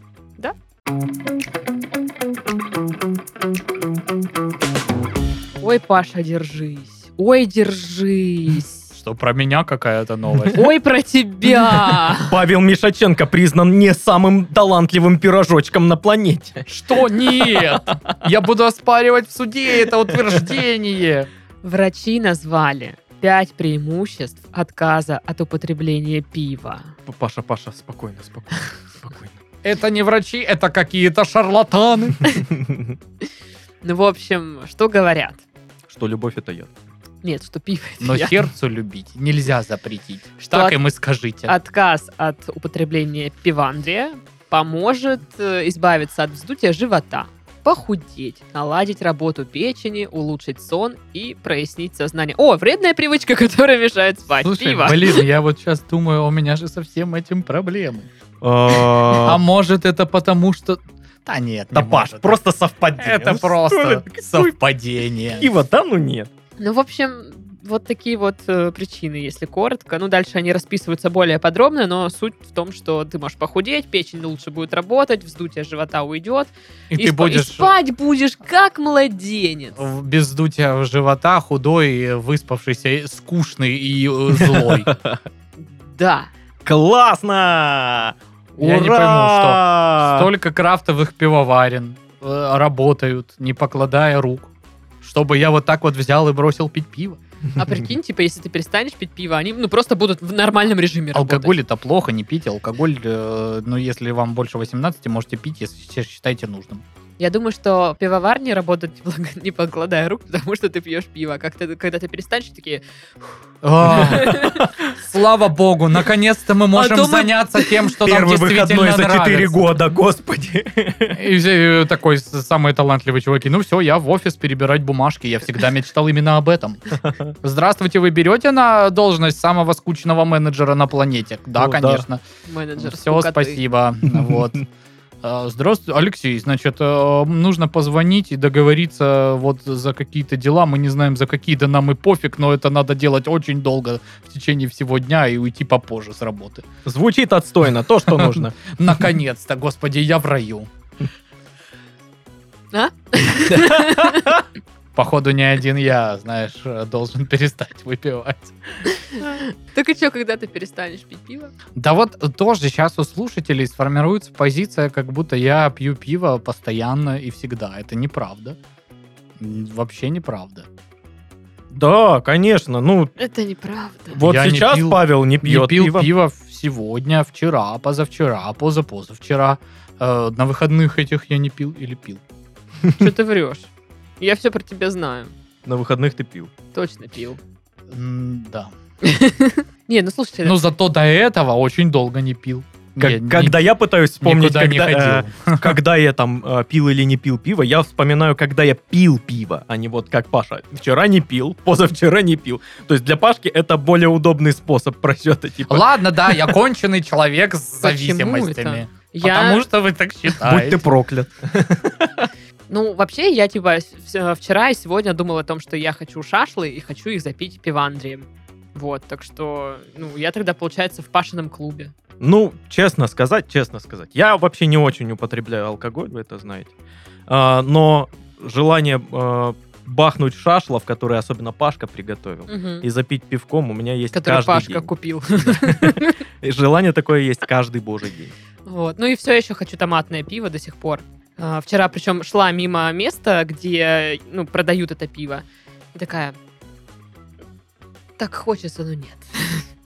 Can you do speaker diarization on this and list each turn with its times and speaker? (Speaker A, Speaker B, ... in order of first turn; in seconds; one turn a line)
Speaker A: 5.6-8.8
Speaker B: 8.9-10.7
Speaker A: 10.5-12.3
Speaker C: 11.7-16.7
Speaker B: 16.7-21.3
Speaker C: 17.3-18.0
Speaker A: 21.6-26.9
Speaker C: 27.1-29.4
Speaker B: 29.6-32.2
Speaker C: 32.5-33.0
Speaker A: 33.8-35.4
Speaker C: 35.9-36.7
Speaker A: 37.2-38.4
Speaker B: 38.0-41.5
Speaker A: 40.4-40.8
Speaker A: 41.5-55.3
Speaker B: 54.4-58.1
Speaker C: 58.4-59.4
Speaker B: 59.2-62.4
Speaker C: 61.7-64.5
Speaker B: 63.0-65.5
Speaker C: 65.4-66.3
Speaker A: 66.6-79.8
Speaker B: 76.9-77.7
Speaker B: 79.8-84.9
Speaker C: 84.4-85.2
Speaker A: 85.6-86.3
Speaker C: 86.7-90.3
Speaker B: 88.6-97.2
Speaker A: 97.6-101.6
Speaker B: 101.1-106.8
Speaker A: 107.2-112.8
Speaker B: 113.6-114.4
Speaker A: 113.9-114.7
Speaker C: 113.9-114.8
Speaker B: 115.0-119.8
Speaker A: 116.7-117.8
Speaker C: 118.0-121.2
Speaker B: 121.2-126.9
Speaker C: 127.0-127.3
Speaker B: 127.4-132.2
Speaker C: 131.6-132.1
Speaker A: 132.5-133.6
Speaker B: 132.8-134.6
Speaker C: 134.1-134.4
Speaker B: 135.2-146.7
Speaker C: 146.8-148.8
Speaker B: 148.1-150.7
Speaker A: 152.7-154.4
Speaker C: 153.5-154.3
Speaker B: 154.9-158.6
Speaker A: 158.9-161.5
Speaker B: 161.8-168.6
Speaker B: 169.4-170.7
Speaker C: 171.7-173.1
Speaker A: 173.2-174.2
Speaker C: 174.1-176.1
Speaker B: 174.2-182.2
Speaker A: 182.9-183.7
Speaker A: 184.2-185.3
Speaker C: 185.7-186.5
Speaker A: 186.7-187.4
Speaker B: 187.9-188.7
Speaker A: 189.0-190.6
Speaker B: 190.4-193.6
Speaker C: 193.0-206.5
Speaker B: 194.2-195.8
Speaker B: 205.7-210.8
Speaker A: 207.8-209.6
Speaker C: 210.4-212.3
Speaker A: 212.7-221.9
Speaker C: 222.2-226.7
Speaker C: 227.3-238.3
Speaker A: 232.5-232.9
Speaker A: 234.1-236.2
Speaker A: 238.7-246.4
Speaker A: 248.2-249.7